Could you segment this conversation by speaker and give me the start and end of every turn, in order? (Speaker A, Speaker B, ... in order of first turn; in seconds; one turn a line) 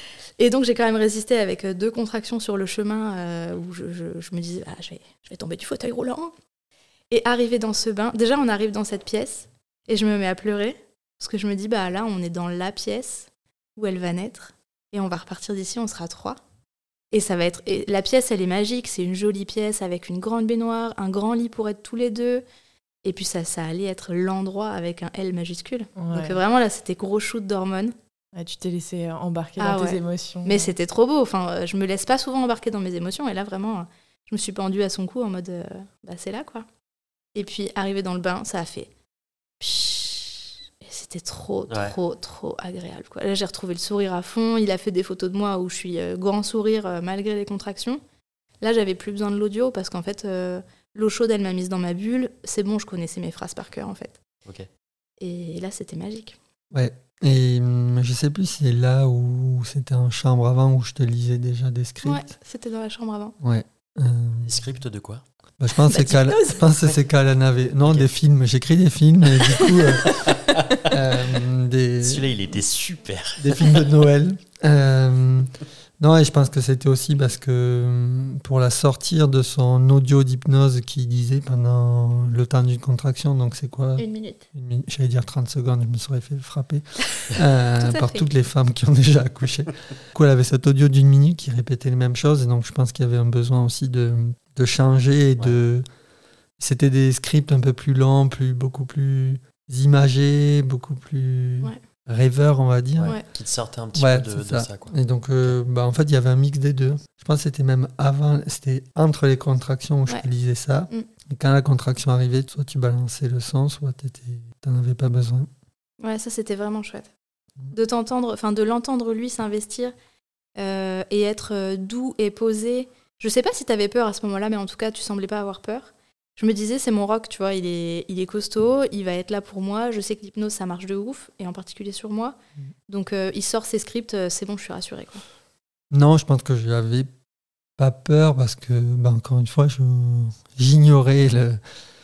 Speaker A: 0.4-6.3
Speaker A: 7.1-16.4
Speaker A: 17.1-22.4
Speaker A: 23.0-27.9
Speaker B: 26.0-26.4
Speaker B: 28.3-30.7
Speaker A: 29.6-36.7
Speaker A: 37.3-38.9
Speaker A: 39.6-48.0
Speaker C: 41.7-42.0
Speaker A: 48.6-54.2
Speaker A: 55.2-56.4
Speaker D: 56.7-62.3
Speaker A: 62.0-63.4
Speaker D: 63.4-64.6
Speaker C: 64.4-65.2
Speaker D: 65.6-70.2
Speaker A: 65.9-66.6
Speaker C: 70.1-70.7
Speaker D: 70.8-72.3
Speaker C: 72.0-73.9
Speaker D: 73.4-95.8
Speaker A: 84.0-84.4
Speaker A: 87.8-88.2
Speaker D: 96.6-103.2
Speaker C: 103.0-105.5
Speaker D: 103.9-115.5
Speaker A: 116.0-117.1
Speaker A: 117.7-119.9
Speaker A: 120.5-132.3
Speaker A: 132.9-135.2
Speaker D: 135.9-137.1
Speaker D: 137.8-141.6